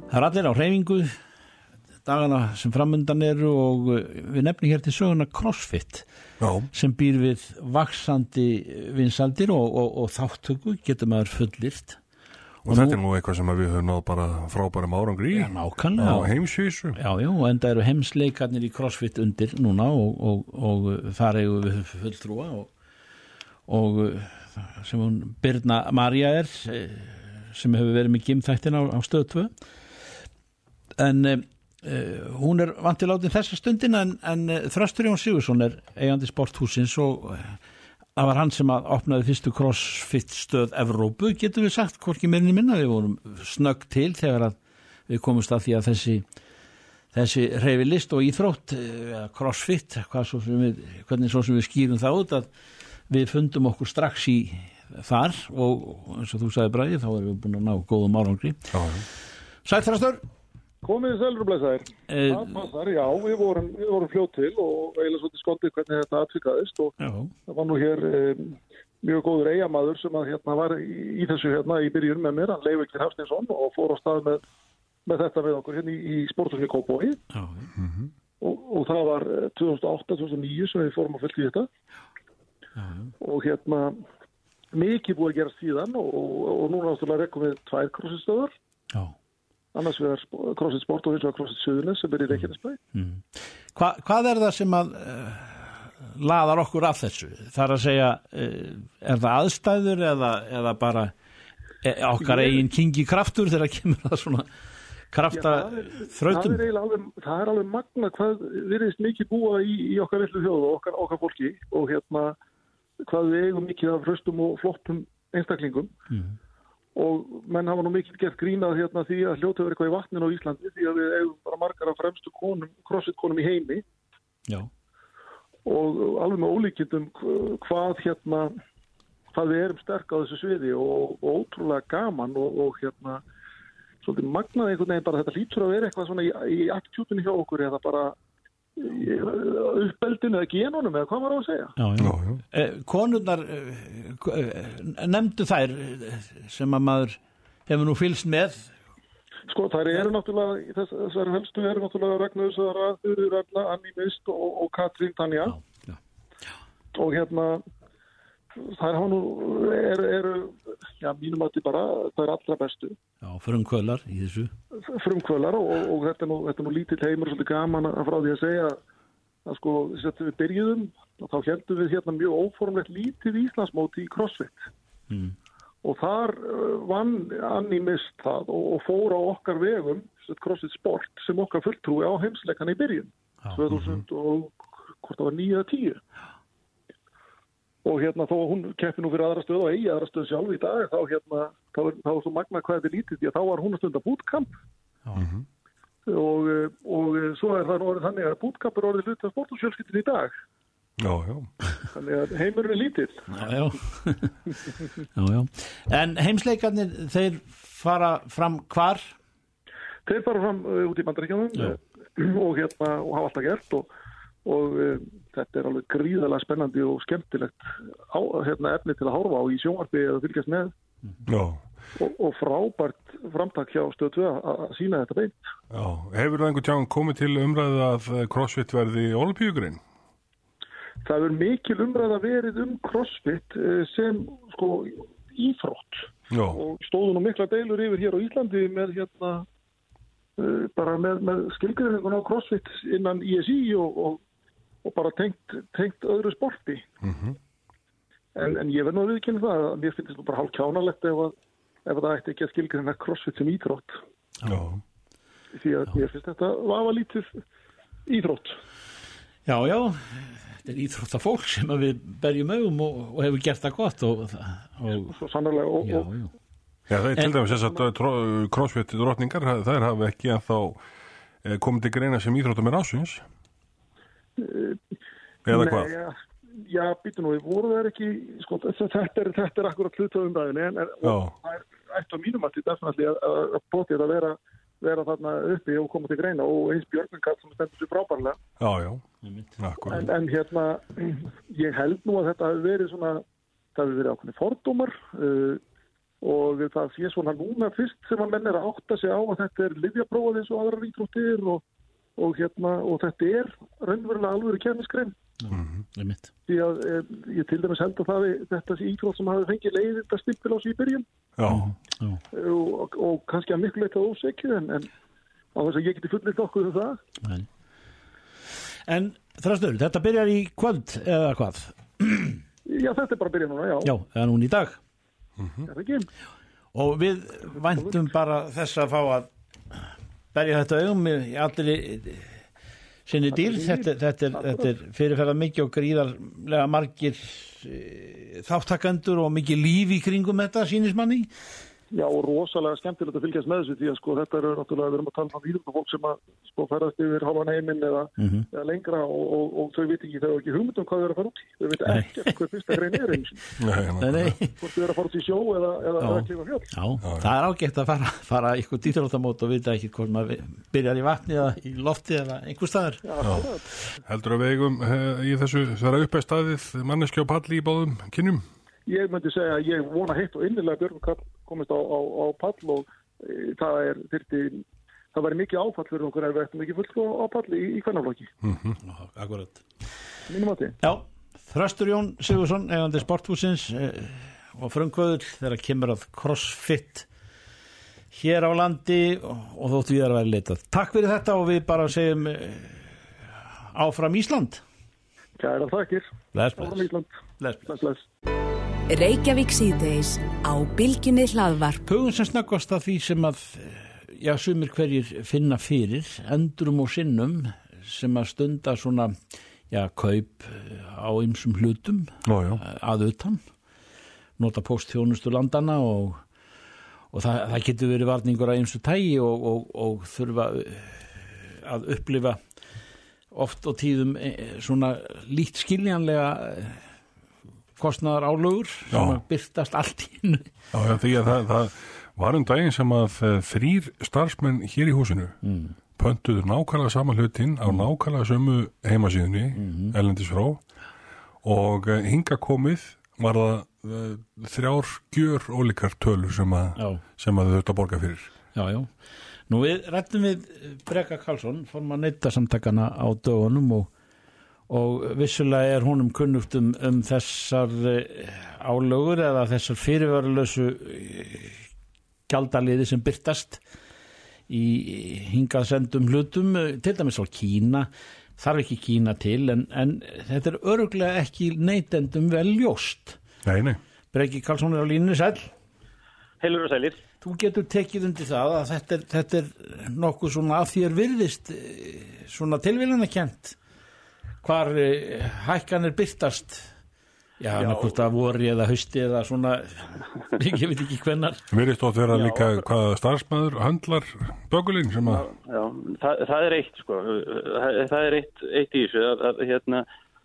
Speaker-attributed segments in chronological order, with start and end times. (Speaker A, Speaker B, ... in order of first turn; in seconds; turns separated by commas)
Speaker A: 0.1-1.1, Speaker A: 2.0-6.1, Speaker B: 6.4-6.7, Speaker A: 6.7-12.0, Speaker B: 12.7-17.0, Speaker A: 12.7-13.0, Speaker A: 15.3-16.3, Speaker A: 16.9-22.7, Speaker A: 23.7-29.5, Speaker A: 31.0-37.6, Speaker A: 38.2-44.6, Speaker A: 45.1-46.2, Speaker A: 47.1-52.5, Speaker A: 53.1-58.7, Speaker B: 58.7-59.0, Speaker A: 59.6-60.2, Speaker C: 60.8-67.0, Speaker A: 62.1-62.6, Speaker A: 67.0-67.3, Speaker C: 67.5-74.4, Speaker C: 75.1-77.2, Speaker A: 77.3-77.7, Speaker B: 77.8-78.1, Speaker C: 78.4-81.7, Speaker A: 82.8-83.1, Speaker C: 83.2-84.0, Speaker C: 84.7-88.5, Speaker C: 89.7-92.8, Speaker A: 92.9-101.1, Speaker A: 101.8-104.5, Speaker C: 102.3-102.6, Speaker A: 105.1-106.7, Speaker C: 105.3-112.4, Speaker C: 113.1-115.9, Speaker A: 116.1-116.4, Speaker C: 117.0-123.8, Speaker C: 125.7-128.5, Speaker C: 129.3-133.2, Speaker C: 134.0-138.2, Speaker C: 138.8-141.7, Speaker A: 141.8-148.7, Speaker B: 142.0-142.4, Speaker C: 149.5-155.6, Speaker A: 155.5-156.0, Speaker C: 156.9-157.6, Speaker C: 158.6-163.0, Speaker A: 163.2-164.5, Speaker C: 164.9-168.8, Speaker C: 169.5-174.7, Speaker C: 175.8-186.0, Speaker C: 187.8-194.5, Speaker B: 195.2-195.5, Speaker C: 196.1-200.3, Speaker B: 201.0-201.5, Speaker C: 201.9-203.2, Speaker A: 203.3-204.5, Speaker A: 205.2-209.1, Speaker C: 210.1-213.9, Speaker C: 214.4-220.7, Speaker B: 221.3-221.6, Speaker C: 222.0-225.4, Speaker B: 225.7-229.8, Speaker C: 231.0-239.4, Speaker B: 236.3-236.6, Speaker C: 240.4-244.2, Speaker C: 244.8-246.9, Speaker B: 247.0-247.4, Speaker C: 248.3-251.3, Speaker C: 251.9-254.0, Speaker B: 254.4-254.8, Speaker C: 255.6-257.4, Speaker C: 258.1-258.6, Speaker A: 259.5-265.1, Speaker C: 265.1-266.1, Speaker A: 265.8-266.3, Speaker B: 266.9-270.8, Speaker B: 271.4-273.2, Speaker C: 274.4-274.8, Speaker B: 275.5-275.9, Speaker C: 275.5-276.1, Speaker C: 276.7-288.4, Speaker B: 281.0-281.3, Speaker B: 288.6-289.0, Speaker B: 289.6-290.1, Speaker C: 289.9-293.2, Speaker C: 293.8-295.6, Speaker C: 296.2-301.6, Speaker C: 302.2-305.1, Speaker A: 305.4-306.3, Speaker B: 305.5-305.8, Speaker C: 306.5-311.1, Speaker B: 311.4-311.7, Speaker A: 311.5-312.2, Speaker C: 312.3-314.9, Speaker C: 315.6-317.0, Speaker A: 318.9-322.4, Speaker C: 322.7-323.9, Speaker A: 323.8-324.8, Speaker B: 325.4-325.7, Speaker C: 325.7-326.1, Speaker A: 326.7-332.3, Speaker A: 333.1-341.3, Speaker C: 333.3-334.7, Speaker C: 341.9-353.5, Speaker A: 348.2-348.5, Speaker A: 351.9-352.7, Speaker B: 353.6-354.4, Speaker A: 354.0-354.5, Speaker C: 354.6-356.7, Speaker A: 356.0-363.0, Speaker B: 357.0-357.3, Speaker C: 363.1-363.7, Speaker B: 363.2-363.5, Speaker B: 364.1-368.4, Speaker C: 368.9-374.6, Speaker C: 375.1-378.3, Speaker B: 378.4-378.8, Speaker A: 378.9-379.6, Speaker C: 380.3-380.8, Speaker A: 380.8-387.1, Speaker A: 388.1-393.0, Speaker A: 393.7-394.6, Speaker C: 395.4-397.1, Speaker A: 396.3-396.9, Speaker A: 397.4-397.7, Speaker C: 397.7-398.1, Speaker D: 398.9-401.8, Speaker A: 401.8-409.1, Speaker A: 409.7-413.4, Speaker B: 412.2-412.6, Speaker A: 414.4-416.2, Speaker A: 417.1-422.4, Speaker A: 423.3-426.8, Speaker A: 427.8-430.5, Speaker B: 428.9-429.2, Speaker B: 430.7-435.4, Speaker A: 435.4-435.7, Speaker B: 436.0-440.6, Speaker A: 439.6-440.0, Speaker B: 441.4-448.3, Speaker A: 448.6-448.9, Speaker A: 449.5-453.9, Speaker A: 454.7-461.6, Speaker A: 462.3-463.6, Speaker A: 464.5-473.2, Speaker B: 473.4-473.8, Speaker A: 474.1-475.5, Speaker E: 476.4-477.0, Speaker A: 477.2-483.6, Speaker A: 484.4-486.7, Speaker A: 487.4-491.4, Speaker E: 487.6-487.9, Speaker B: 491.5-495.3, Speaker E: 492.1-492.6, Speaker E: 495.0-499.9